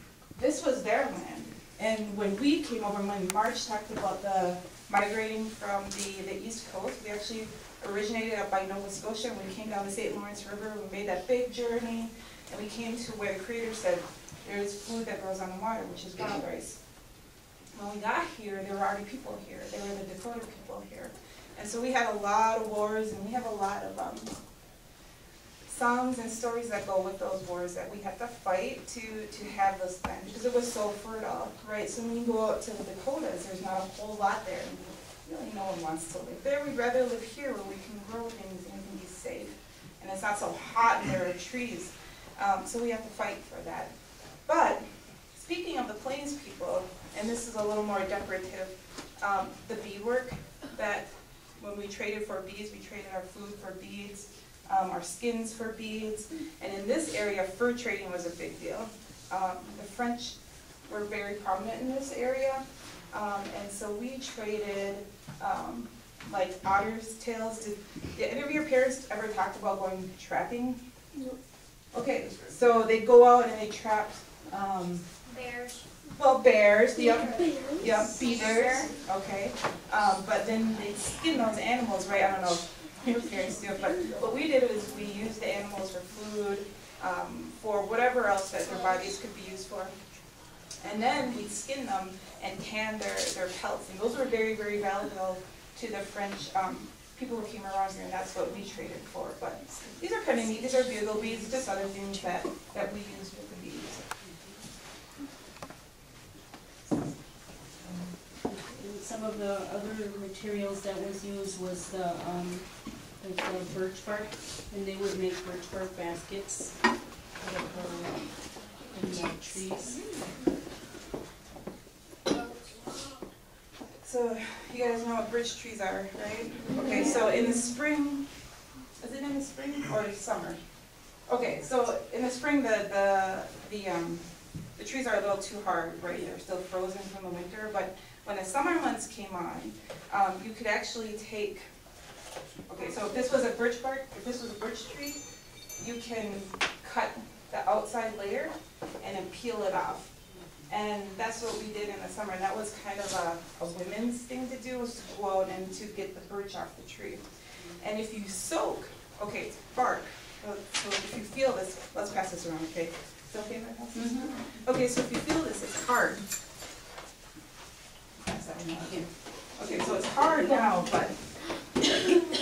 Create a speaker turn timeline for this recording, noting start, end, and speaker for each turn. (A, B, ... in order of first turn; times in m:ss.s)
0:00.4-0:16.8 A
0:17.7-0:24.3 A
0:25.7-0:43.9 A
0:44.5-1:10.8 A
1:11.9-1:15.0 A
1:15.3-1:16.0 B
1:16.1-1:30.0 A
1:17.0-1:18.9 B
1:30.8-1:44.1 A
1:44.2-1:44.6 C
1:48.4-1:58.3 C
1:58.9-2:00.1 C
2:04.0-2:08.2 A
2:06.9-2:07.2 C
2:09.0-2:10.6 A
2:11.3-2:21.7 A
2:22.7-2:25.2 A
2:25.8-2:30.1 A
2:30.7-2:37.2 A
2:37.8-2:46.3 A
2:44.0-2:44.3 C
2:48.2-2:51.2 A
2:50.2-2:50.9 C
2:51.9-2:52.2 A